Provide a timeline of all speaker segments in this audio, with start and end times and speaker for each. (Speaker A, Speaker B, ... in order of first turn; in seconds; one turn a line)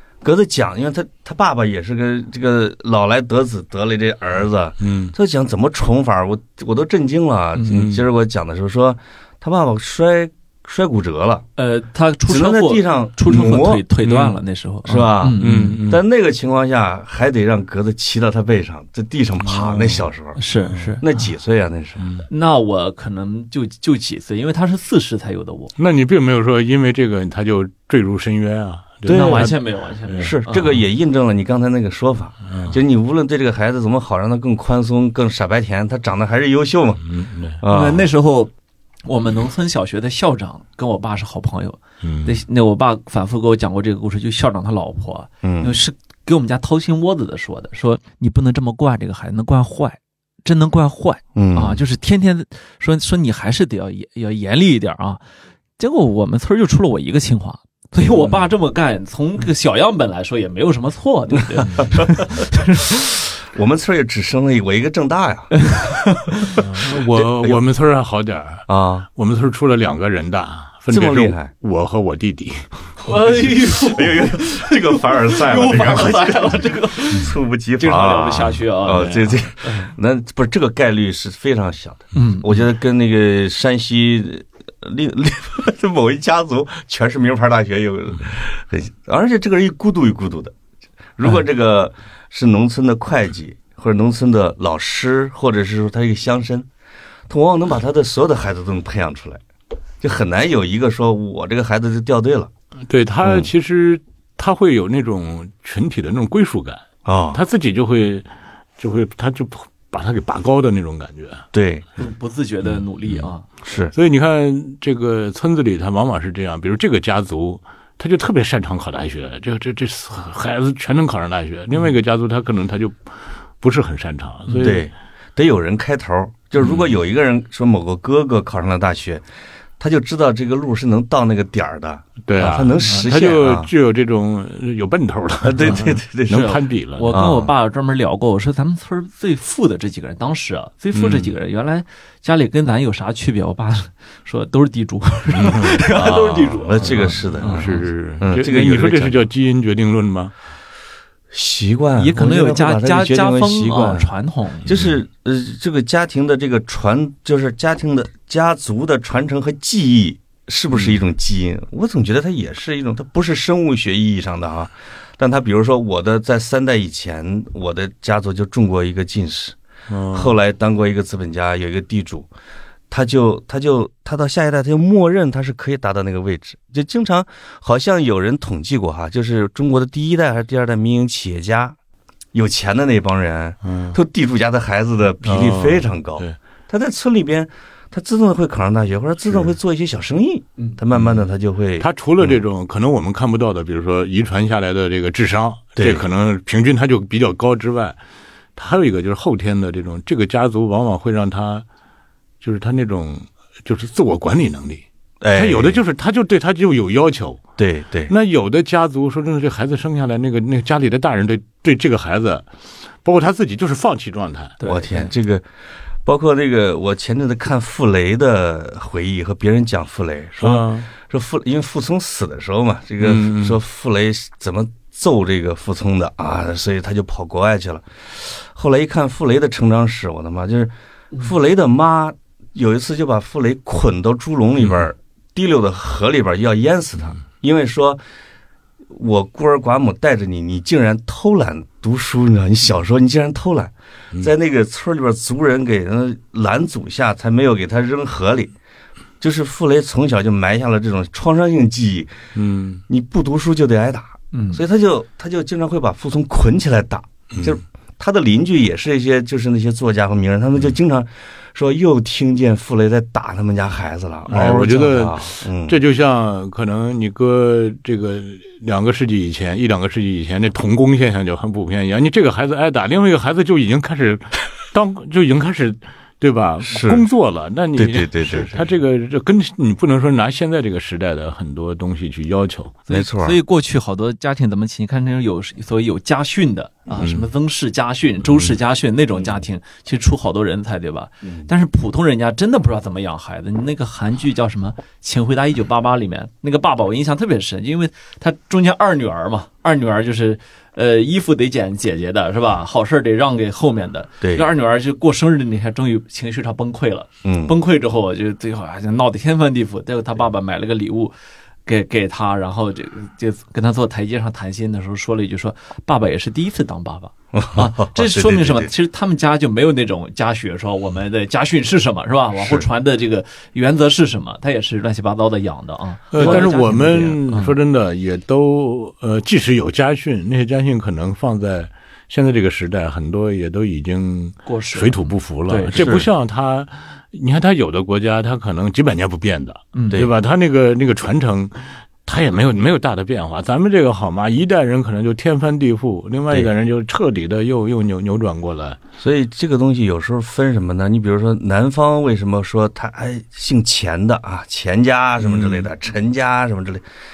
Speaker A: 0.2-11.4
Speaker B: 4.8-5.1
Speaker B: 7.7-8.0
Speaker C: 11.6-15.8
Speaker A: 12.3-13.8
Speaker B: 13.3-14.4
Speaker A: 14.9-20.4
Speaker B: 15.4-16.0
Speaker B: 19.4-20.1
Speaker C: 20.4-21.0
Speaker B: 20.6-20.9
Speaker A: 21.0-22.0
Speaker B: 22.0-22.3
Speaker C: 22.3-25.7
Speaker B: 25.8-30.3
Speaker A: 29.0-29.6
Speaker C: 29.1-30.8
Speaker A: 30.2-37.1
Speaker B: 32.5-32.8
Speaker B: 37.1-37.6
Speaker A: 37.6-38.1
Speaker C: 37.7-38.5
Speaker C: 39.0-55.2
Speaker B: 42.0-42.4
Speaker A: 45.4-45.8
Speaker A: 51.4-51.8
Speaker C: 55.8-63.0
Speaker A: 61.8-62.1
Speaker A: 63.4-65.7
Speaker C: 65.6-66.6
Speaker B: 66.6-72.7
Speaker A: 66.6-67.6
Speaker A: 68.7-69.1
Speaker A: 70.9-71.5
Speaker C: 73.0-79.9
Speaker A: 73.2-90.5
Speaker C: 82.2-82.5
Speaker A: 91.2-96.7
Speaker A: 97.3-99.4
Speaker A: 100.0-102.5
Speaker B: 102.9-108.3
Speaker A: 103.2-103.5
Speaker A: 107.0-107.4
Speaker B: 108.8-111.5
Speaker A: 111.5-111.9
Speaker C: 112.0-113.5
Speaker B: 112.7-113.3
Speaker A: 113.7-113.9
Speaker B: 113.9-124.8
Speaker C: 124.5-124.8
Speaker A: 124.6-129.2
Speaker B: 126.6-126.9
Speaker A: 129.8-133.7
Speaker B: 132.3-137.2
Speaker A: 135.4-136.6
Speaker C: 135.6-147.9
Speaker A: 137.1-137.5
Speaker B: 140.9-141.3
Speaker B: 145.3-145.8
Speaker A: 145.9-149.2
Speaker B: 146.8-150.3
Speaker A: 151.3-154.1
Speaker C: 152.0-154.7
Speaker A: 154.7-169.6
Speaker B: 154.7-155.0
Speaker B: 169.9-170.3
Speaker A: 170.1-172.3
Speaker A: 172.9-181.8
Speaker A: 182.3-192.4
Speaker B: 183.6-184.0
Speaker B: 185.2-186.4
Speaker B: 190.9-191.2
Speaker B: 191.8-198.0
Speaker A: 195.8-196.1
Speaker B: 198.6-201.7
Speaker B: 202.4-207.4
Speaker A: 205.2-205.8
Speaker A: 207.6-208.1
Speaker B: 208.1-212.5
Speaker B: 213.0-214.6
Speaker C: 214.6-215.1
Speaker A: 214.6-215.5
Speaker A: 216.0-238.0
Speaker B: 220.4-220.9
Speaker B: 223.0-223.6
Speaker A: 238.9-248.5
Speaker A: 249.2-252.1
Speaker B: 252.3-252.8
Speaker A: 252.9-265.8
Speaker C: 254.3-254.6
Speaker B: 257.3-257.6
Speaker B: 264.3-282.8
Speaker A: 276.6-277.1
Speaker A: 277.8-278.7
Speaker C: 282.9-311.1
Speaker A: 282.9-283.4
Speaker B: 287.0-287.2
Speaker A: 304.2-304.5
Speaker A: 307.2-307.6
Speaker C: 311.7-327.5
Speaker A: 317.3-318.7
Speaker A: 322.4-322.7
Speaker B: 326.1-348.8
Speaker A: 326.2-326.5
Speaker C: 334.5-336.0
Speaker A: 335.8-336.1
Speaker C: 339.8-340.0
Speaker A: 349.0-356.8
Speaker B: 355.2-355.7